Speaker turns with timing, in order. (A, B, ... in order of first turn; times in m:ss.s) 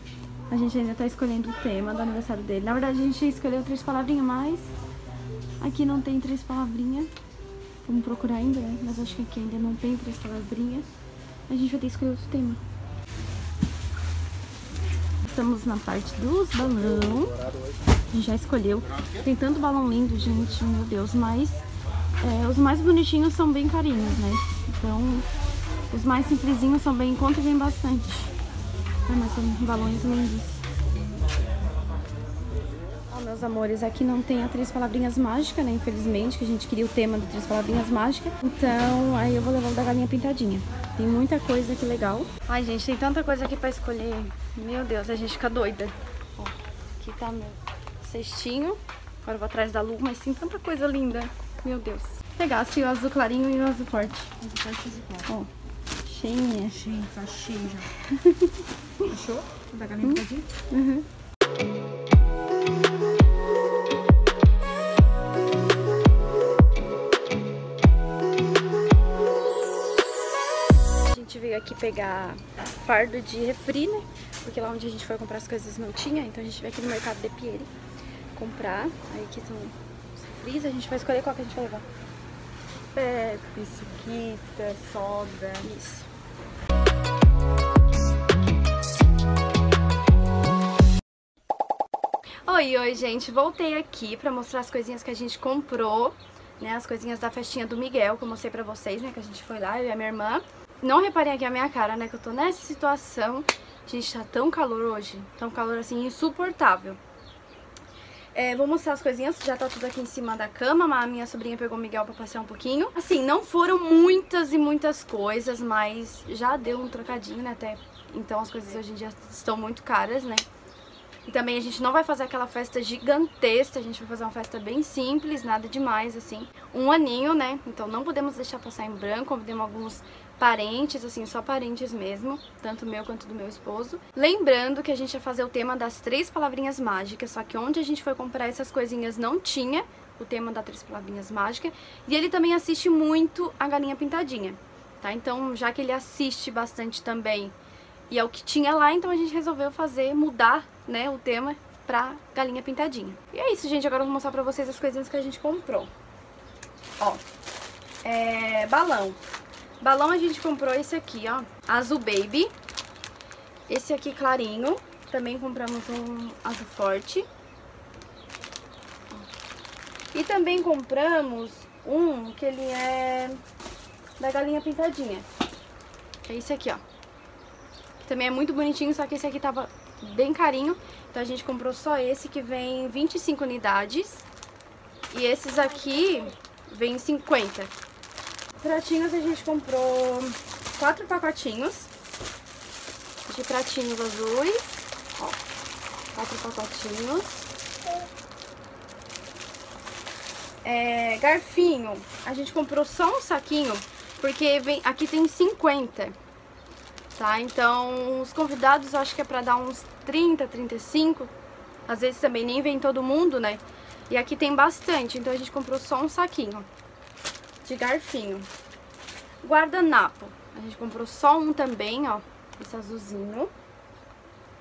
0:00.5-0:04.7 A
0:05.6-0:07.1 A
0:07.8-0:10.9 A
0:11.5-0:12.6 A
0:15.2-0:17.5 A
0:18.1-0:21.6 A
0:22.2-0:25.3 A
0:25.9-0:28.3 A
0:29.1-0:30.6 A
0:33.1-0:54.4 A
0:54.4-0:55.3 B
0:55.2-0:55.5 A
0:56.0-0:57.0 A
0:56.7-0:57.9 B
0:57.9-0:59.1 A
0:59.0-1:00.5 B
1:00.0-1:01.1 A
1:11.0-1:17.7 A
1:18.3-1:21.8 A
1:22.9-1:25.7 B
1:25.6-1:26.1 A
1:32.4-1:47.0 A
1:48.3-2:00.4 A
2:01.2-2:27.5 A
2:28.1-2:35.9 A
2:37.0-2:37.2 A
2:38.0-2:39.2 A
2:39.8-2:42.5 A
2:43.7-2:47.3 A
2:50.1-2:53.4 A
2:54.2-2:55.3 A
2:56.2-2:56.8 A
2:58.0-3:04.2 A
3:05.1-3:07.7 A
3:08.6-3:11.9 A
3:13.2-3:15.4 A
3:16.1-3:17.5 A
3:20.6-3:26.2 A
3:27.2-3:31.3 A
3:31.9-3:36.7 A
3:37.6-3:38.5 A
3:39.4-3:43.5 A